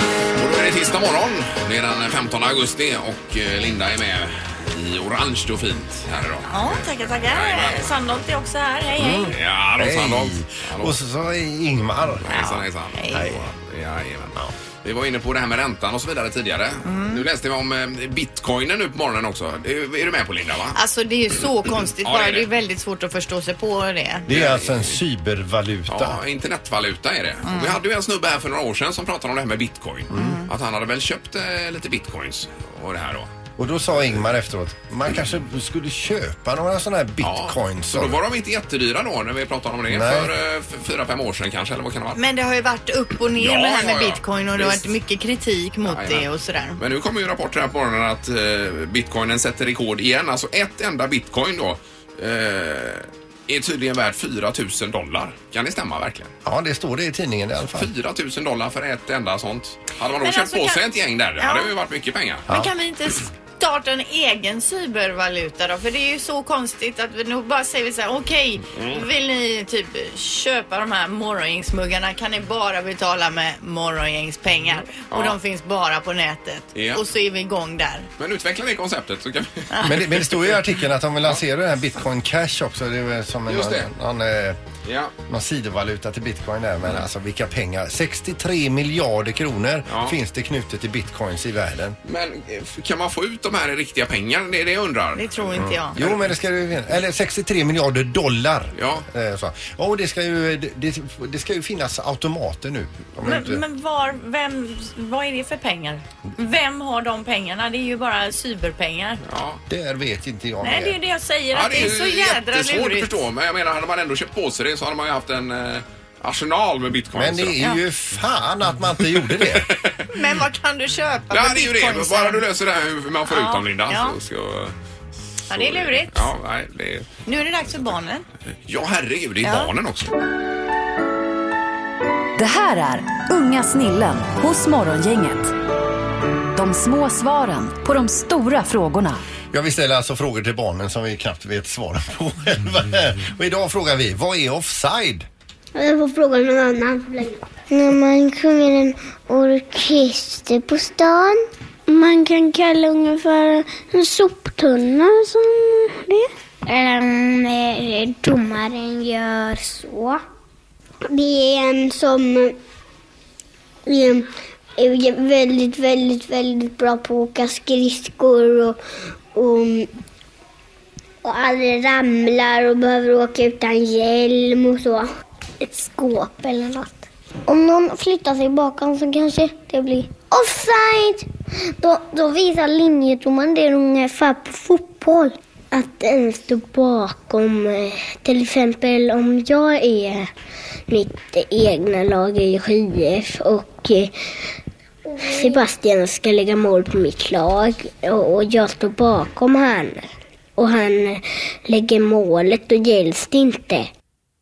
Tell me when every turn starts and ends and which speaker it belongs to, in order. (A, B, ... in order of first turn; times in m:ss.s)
0:00.4-0:07.9 A
0:06.5-0:09.3 B
0:09.0-0:12.3 C
0:09.3-0:11.0 A
0:12.2-0:20.8 A
0:12.3-0:13.3 B
0:13.1-0:13.4 C
0:16.8-0:17.2 B
0:20.7-0:24.3 B
0:22.0-0:22.5 A
0:24.3-0:26.2 C
0:24.3-0:25.0 A
0:25.9-0:33.3 A
0:27.4-0:27.8 B
0:30.1-0:30.4 C
0:30.1-0:30.5 B
0:33.6-0:38.2 C
0:37.2-0:42.2 A
0:39.9-0:40.3 C
0:42.2-0:46.8 B
0:43.3-0:44.9 A
0:45.8-0:56.3 A
0:56.4-0:57.9 C
0:57.7-1:02.4 A
1:00.2-1:00.8 B
1:01.4-1:01.7 B
1:02.5-1:18.1 B
1:08.8-1:09.0 A
1:15.1-1:15.4 A
1:16.7-1:17.0 A
1:18.2-1:20.3 A
1:19.7-1:20.0 B
1:19.8-1:24.6 C
1:23.5-1:23.9 A
1:24.8-1:25.1 A
1:25.3-1:32.0 C
1:29.9-1:30.2 A
1:32.0-1:36.2 A
1:35.2-1:36.0 B
1:35.6-1:43.6 C
1:38.8-1:39.0 A
1:43.2-1:49.2 B
1:49.2-1:49.6 A
1:49.7-1:51.0 C
1:50.6-1:53.2 B
1:51.5-1:57.6 A
1:57.1-1:59.7 C
1:59.0-2:00.1 A
2:00.1-2:02.4 B
2:01.3-2:04.7 A
2:03.3-2:04.2 B
2:05.5-2:06.3 B
2:05.5-2:07.1 A
2:07.2-2:08.2 B
2:08.7-2:10.1 A
2:09.4-2:09.7 B
2:12.4-2:15.5 D
2:16.5-2:19.2 D
2:19.5-2:25.3 C
2:25.7-2:40.2 E
2:41.0-2:42.6 E
2:43.8-2:48.8 E
2:49.3-2:49.9 E
2:51.2-2:55.1 E
2:55.6-3:01.3 E
3:01.8-3:10.3 E
3:10.9-3:14.1 E
3:15.1-3:20.0 E
3:20.6-3:23.9 E